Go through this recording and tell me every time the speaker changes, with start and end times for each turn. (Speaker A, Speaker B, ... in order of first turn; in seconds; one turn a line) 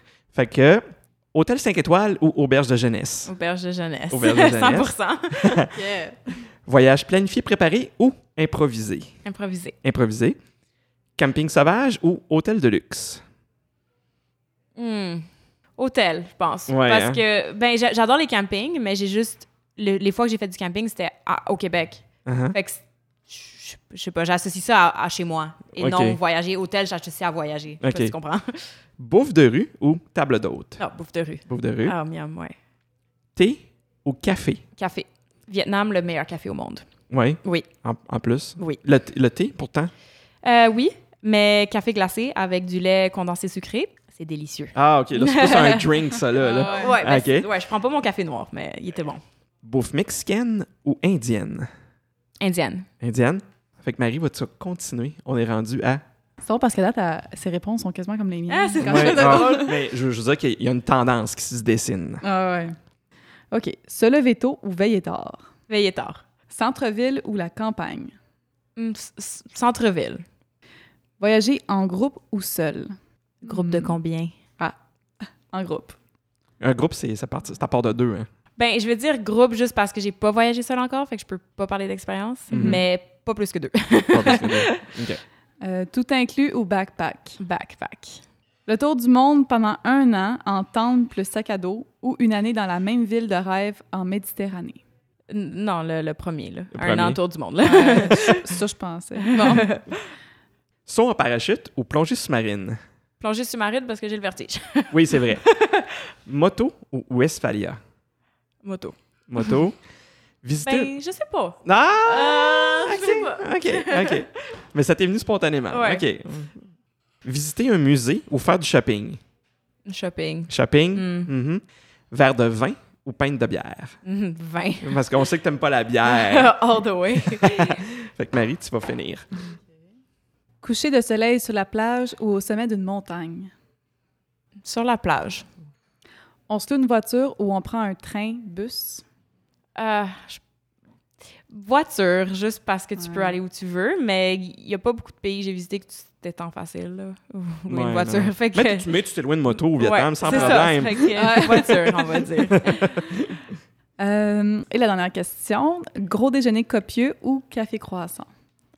Speaker A: 0.3-3.3
Speaker B: 3.3-6.0
Speaker A: 4.1-5.7
Speaker C: 5.8-6.2
Speaker A: 6.7-9.2
Speaker B: 9.2-9.8
Speaker A: 9.8-10.4
Speaker A: 11.2-13.2
Speaker B: 14.8-28.7
Speaker A: 16.7-17.2
Speaker A: 22.2-22.6
Speaker A: 25.8-26.2
Speaker A: 27.8-28.1
Speaker A: 29.0-30.8
Speaker B: 30.8-32.5
Speaker A: 31.5-31.9
Speaker A: 33.4-34.6
Speaker B: 34.8-36.9
Speaker A: 37.1-39.9
Speaker B: 40.4-49.2
Speaker A: 44.7-47.5
Speaker C: 46.4-47.0
Speaker A: 49.6-51.7
Speaker B: 52.4-52.9
Speaker A: 53.0-56.0
Speaker C: 56.4-59.7
Speaker B: 58.5-59.8
Speaker A: 58.8-62.2
Speaker C: 62.2-62.8
Speaker C: 63.5-65.5
Speaker B: 65.7-66.2
Speaker C: 66.5-68.1
Speaker B: 68.8-70.2
Speaker C: 71.2-74.0
Speaker B: 73.5-74.3
Speaker C: 74.6-76.0
Speaker A: 76.6-78.3
Speaker B: 78.6-84.8
Speaker A: 82.5-82.8
Speaker A: 84.1-85.2
Speaker C: 85.6-87.4
Speaker B: 87.4-88.2
Speaker C: 88.7-94.8
Speaker B: 95.3-98.5
Speaker A: 96.7-97.2
Speaker C: 97.6-99.8
Speaker B: 99.2-100.0
Speaker A: 100.9-102.8
Speaker B: 103.2-106.0
Speaker A: 104.9-105.4
Speaker A: 106.3-107.8
Speaker B: 108.6-109.5
Speaker A: 109.3-109.8
Speaker A: 110.4-110.9
Speaker B: 110.7-114.3
Speaker A: 111.6-116.6
Speaker B: 115.7-116.0
Speaker A: 117.2-119.2
Speaker B: 119.9-121.3
Speaker A: 120.5-124.0
Speaker B: 124.0-125.0
Speaker A: 124.8-126.5
Speaker B: 126.0-127.8
Speaker A: 127.3-129.3
Speaker C: 130.6-133.5
Speaker B: 134.6-135.5
Speaker C: 136.5-139.0
Speaker B: 139.8-140.4
Speaker B: 141.5-148.9
Speaker C: 143.0-143.4
Speaker A: 147.7-151.1
Speaker B: 149.6-152.8
Speaker C: 150.2-152.3
Speaker A: 152.5-153.4
Speaker C: 154.0-158.3